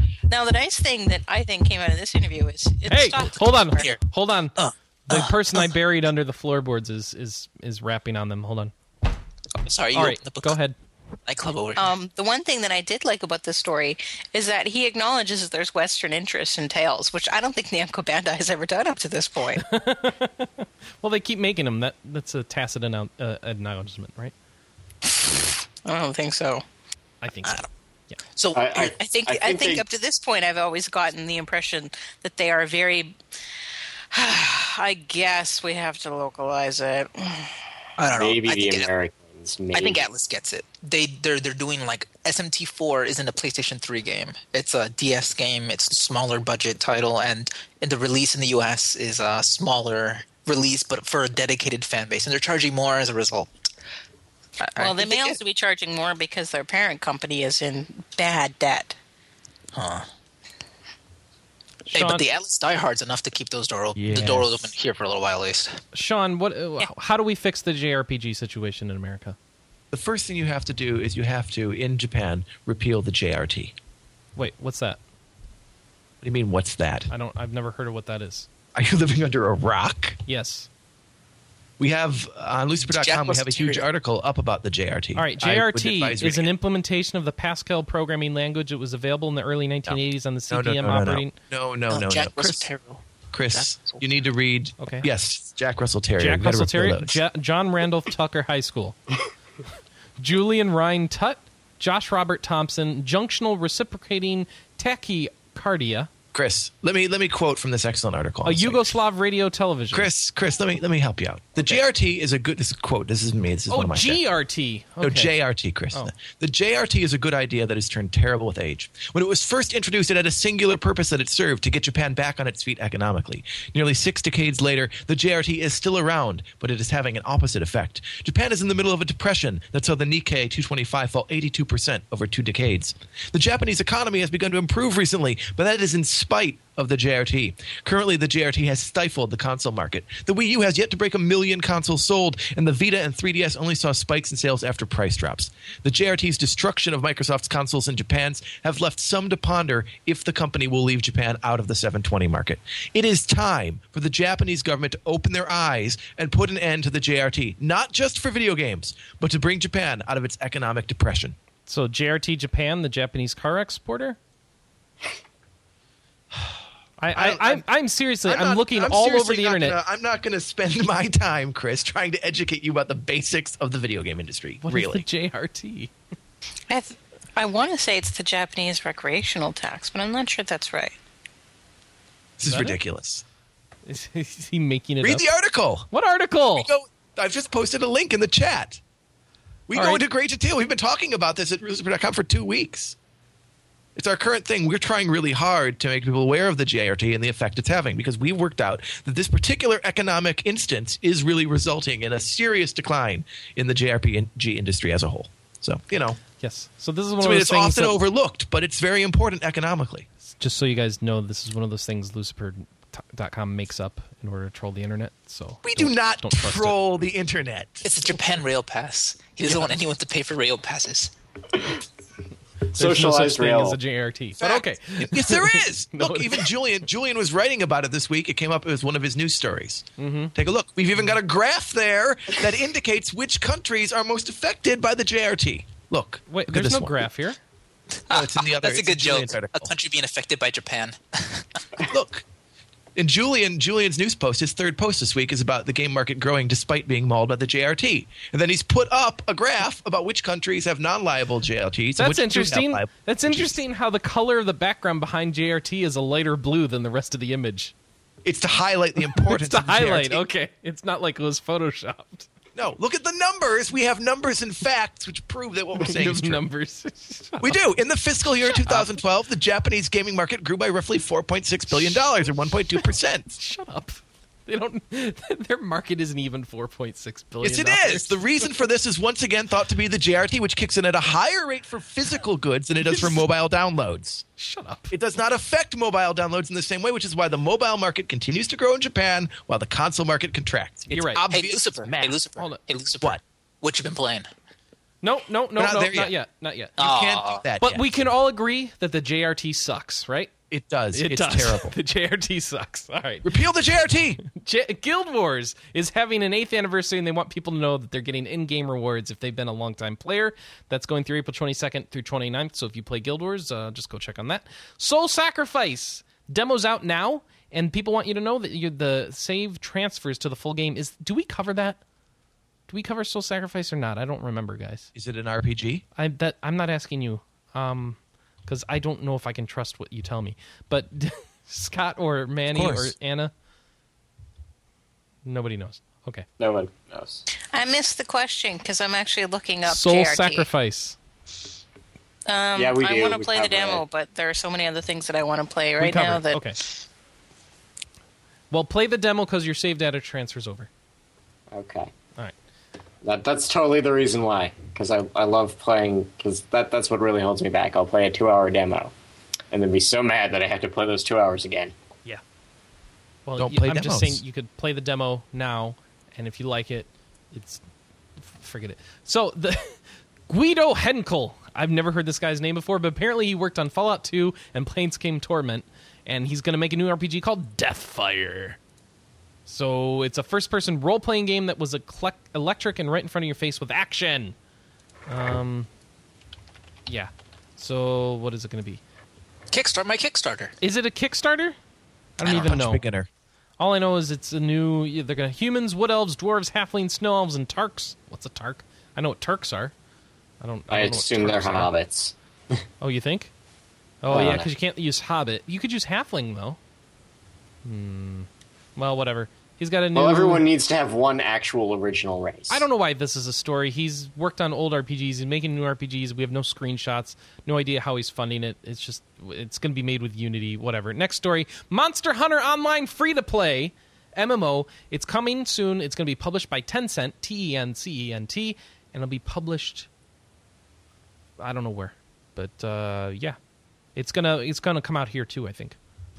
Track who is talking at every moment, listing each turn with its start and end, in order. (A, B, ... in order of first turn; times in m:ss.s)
0:00.3-0:03.8 A
0:02.9-0:04.6 B
0:03.7-0:04.0 C
0:04.6-0:05.7 C
0:05.1-0:08.7 B
0:09.6-0:10.6 C
0:09.9-0:10.8 B
0:11.3-0:11.9 C
0:11.8-0:19.6 A
0:19.6-0:24.3 B
0:25.1-0:26.6 A
0:27.2-0:28.2 B
0:28.4-0:28.9 C
0:28.5-0:29.8 D
0:29.0-0:33.2 A
0:34.1-0:37.5 A
0:38.0-0:38.9 C
0:38.1-0:40.0 D
0:39.7-0:53.5 C
0:54.6-0:55.4 C
0:54.8-0:59.0 A
0:59.7-1:00.1 C
1:01.9-1:02.2 B
1:01.9-1:05.8 C
1:04.0-1:04.7 E
1:05.9-1:09.4 B
1:09.9-1:13.7 E
1:14.4-1:15.0 B
1:16.2-1:17.1 E
1:17.1-1:18.5 B
1:18.7-1:20.2 E
1:20.3-1:20.7 B
1:21.8-1:26.5 E
1:23.0-1:23.9 C
1:25.1-1:31.4 B
1:29.9-1:32.7 E
1:31.9-1:34.1 C
1:33.3-1:37.2 E
1:34.8-1:35.1 B
1:36.2-1:39.0 B
1:40.2-1:46.1 B
1:46.3-1:48.9 E
1:48.4-1:50.1 B
1:49.9-1:54.2 E
1:53.7-1:55.3 B
1:55.0-2:41.4 E
2:41.7-2:44.2 B
2:47.0-2:49.8 B
2:47.1-2:47.6 E
2:48.2-2:55.0 E
2:54.6-2:55.9 B
2:56.7-3:00.9 A
3:02.4-3:03.2 E
3:02.4-3:02.8 B
3:03.8-3:05.3 B
3:05.0-3:05.9 E
3:05.9-3:06.7 B
3:06.6-3:08.8 E
3:09.7-3:13.0 E
3:09.7-3:10.0 B
3:14.0-3:26.2 E
3:26.4-3:28.0 B
3:27.2-3:30.1 E
3:30.3-3:36.8 B
3:35.6-3:37.9 E
3:37.8-3:41.1 C
3:42.7-3:43.8 D
3:42.7-3:46.5 B
3:44.4-3:57.1 E
3:50.0-3:50.3 B
3:56.3-3:57.4 B
3:58.1-4:01.6 C
3:58.1-3:59.7 E
4:01.8-4:02.2 E
4:03.0-4:13.6 E
4:12.0-4:17.7 B
4:18.2-4:20.2 E
4:19.0-4:22.3 B
4:22.6-4:26.4 E
4:25.8-4:27.6 B
4:27.4-4:33.4 E
4:28.6-4:28.9 B
4:33.4-4:38.5 B
4:37.4-4:44.2 E
4:44.4-4:44.9 B
4:44.9-4:52.2 E
4:50.9-4:51.2 B
4:51.3-4:54.3 C
4:55.0-4:56.8 B
4:55.6-4:56.1 E
4:56.8-4:57.9 E
4:56.8-4:57.4 C
4:57.6-5:00.3 B
5:00.5-5:01.8 E
5:00.9-5:03.3 B
5:03.2-5:04.2 E
5:04.2-5:21.8 B
5:22.7-5:24.9 B
5:24.9-5:25.8 E
5:26.0-5:33.3 B
5:32.5-5:32.9 E
5:35.2-5:36.3 B
5:36.4-5:37.3 D
5:37.5-5:40.5 A
5:39.6-5:41.0 B
5:42.3-5:46.4 A
5:42.6-5:43.8 D
5:45.8-5:46.6 B
5:48.5-5:50.7 B
5:51.5-5:51.9 D
5:53.0-5:58.9 D
5:59.5-6:01.7 D
6:03.3-6:07.6 B
6:03.4-6:04.2 E
6:08.2-6:18.6 B
6:19.5-6:24.4 B
6:25.1-6:25.7 B
6:26.9-6:28.8 B
6:29.5-6:30.6 C
6:30.6-6:31.6 B
6:32.2-6:32.8 B
6:32.2-6:32.6 C
6:32.2-6:33.1 E
6:33.6-6:39.7 B
6:40.4-6:41.7 B
6:40.7-6:42.1 D
6:42.8-6:43.3 B
6:44.0-6:46.6 B
6:44.1-6:44.5 D
6:47.6-6:50.5 B
6:49.9-6:52.6 D
6:52.5-7:09.9 B
7:11.4-7:13.4 B
7:14.0-7:15.8 B